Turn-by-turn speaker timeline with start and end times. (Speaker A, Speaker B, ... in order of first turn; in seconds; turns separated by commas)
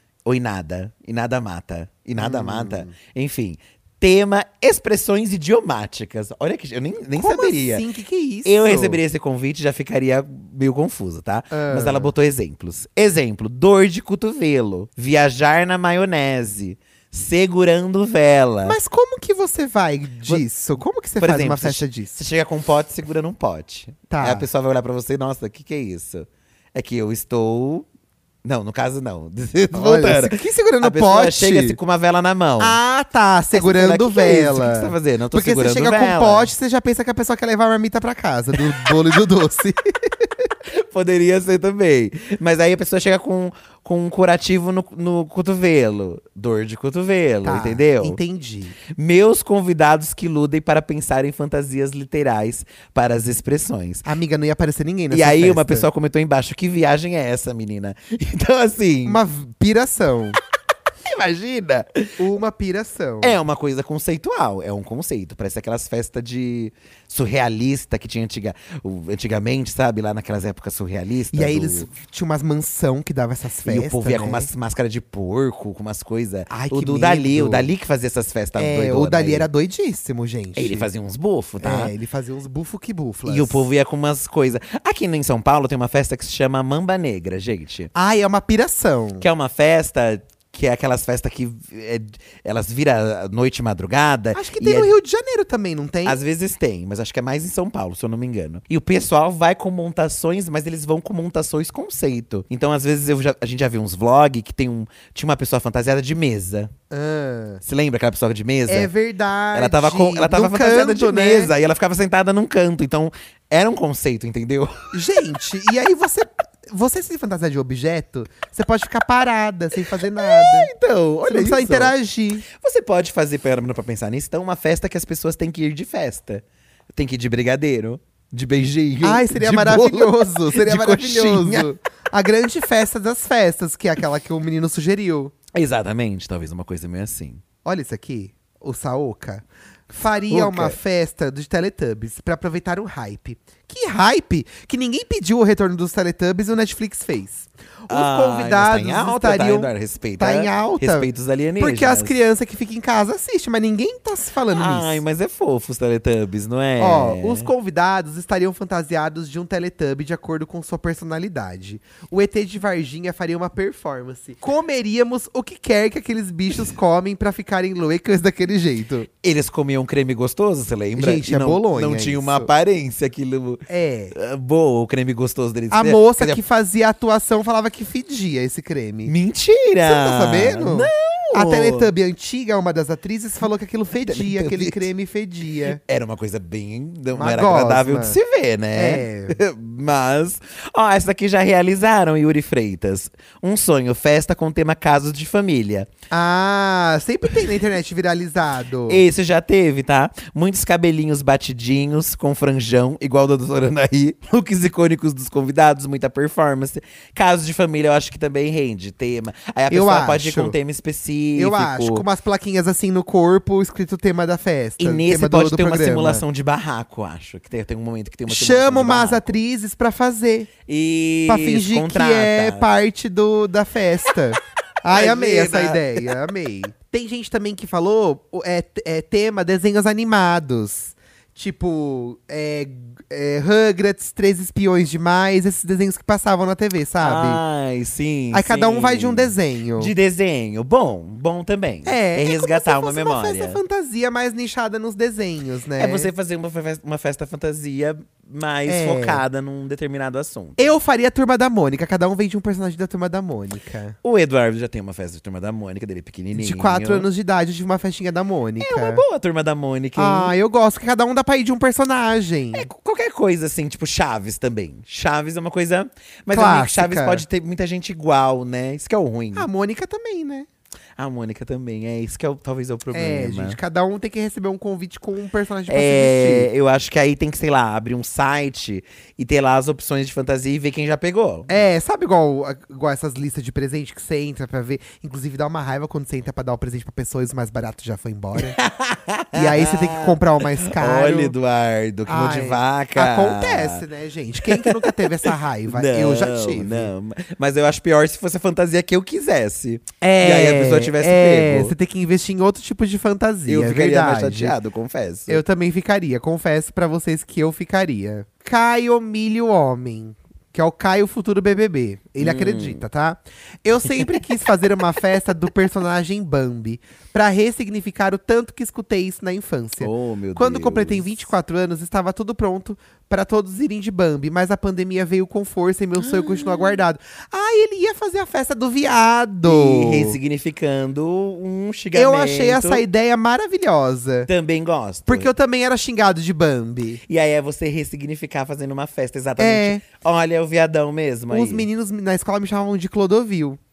Speaker A: 0.2-7.8, Speaker B: 2.2-2.9, Speaker B: 7.2-9.0, Speaker A: 8.4-18.8, Speaker B: 11.5-12.1, Speaker B: 18.6-22.2, Speaker A: 21.2-27.9, Speaker B: 24.1-24.5, Speaker A: 28.4-32.8, Speaker B: 29.7-31.8, Speaker B: 32.6-40.5, Speaker A: 33.5-36.5, Speaker A: 38.6-38.9, Speaker A: 40.7-48.2, Speaker B: 47.4-48.8, Speaker A: 48.9-54.0, Speaker B: 54.0-55.9, Speaker A: 55.1-59.2, Speaker B: 59.1-60.4, Speaker A: 61.0-62.2, Speaker B: 62.2-63.4, Speaker A: 63.2-71.9, Speaker B: 71.3-74.5, Speaker A: 73.6-79.5, Speaker B: 76.5-77.7, Speaker B: 78.6-80.9, Speaker A: 80.6-81.9, Speaker B: 81.6-83.6, Speaker A: 83.3-87.9, Speaker B: 87.9-89.2, Speaker A: 89.2-94.9, Speaker B: 94.3-96.2, Speaker A: 96.0-106.7, Speaker B: 106.9-107.6, Speaker A: 107.6-108.9, Speaker B: 108.7-111.5, Speaker A: 109.5-115.0, Speaker B: 114.9-120.7, Speaker A: 120.2-121.9, Speaker B: 121.2-122.5, Speaker A: 122.5-131.7, Speaker B: 129.0-135.3, Speaker A: 135.5-137.4, Speaker B: 137.7-155.0, Speaker A: 140.3-140.8, Speaker A: 147.9-152.2, Speaker A: 154.5-157.5, Speaker B: 156.8-169.1, Speaker A: 169.2-173.6, Speaker B: 171.0-172.5, Speaker B: 173.7-174.2, Speaker A: 174.1-176.4, Speaker B: 175.7-179.1, Speaker A: 179.1-181.9, Speaker B: 179.8-185.8, Speaker A: 184.1-184.9, Speaker A: 185.8-195.9, Speaker B: 187.1-188.2, Speaker B: 188.7-189.4, Speaker B: 196.1-199.0, Speaker A: 198.9-212.1, Speaker B: 209.7-210.6, Speaker B: 211.4-216.2, Speaker A: 214.8-219.4, Speaker B: 218.3-220.5, Speaker A: 220.7-222.7, Speaker B: 221.3-237.4, Speaker A: 224.9-226.0, Speaker A: 237.0-243.6, Speaker B: 238.3-239.9, Speaker B: 241.8-246.1, Speaker A: 245.8-250.7, Speaker B: 248.7-249.2, Speaker B: 250.6-254.0, Speaker A: 254.0-257.1, Speaker B: 256.3-259.0, Speaker A: 258.6-260.4, Speaker B: 260.0-262.7, Speaker A: 262.5-269.5, Speaker B: 266.3-267.2, Speaker B: 269.4-270.5, Speaker A: 271.0-273.6, Speaker B: 272.9-276.5, Speaker A: 275.7-281.5, Speaker B: 281.5-288.6, Speaker A: 288.4-293.8, Speaker B: 289.3-291.4, Speaker B: 292.1-296.9, Speaker A: 294.4-301.8, Speaker B: 300.0-304.6, Speaker A: 303.5-305.4, Speaker B: 305.3-330.2, Speaker A: 312.2-312.8, Speaker A: 314.0-314.2, Speaker A: 319.8-321.1, Speaker A: 326.0-326.8, Speaker A: 329.4-332.9, Speaker B: 331.9-334.3, Speaker A: 334.3-335.3, Speaker B: 335.1-337.0, Speaker A: 337.1-341.7, Speaker B: 339.4-339.9, Speaker B: 341.3-343.6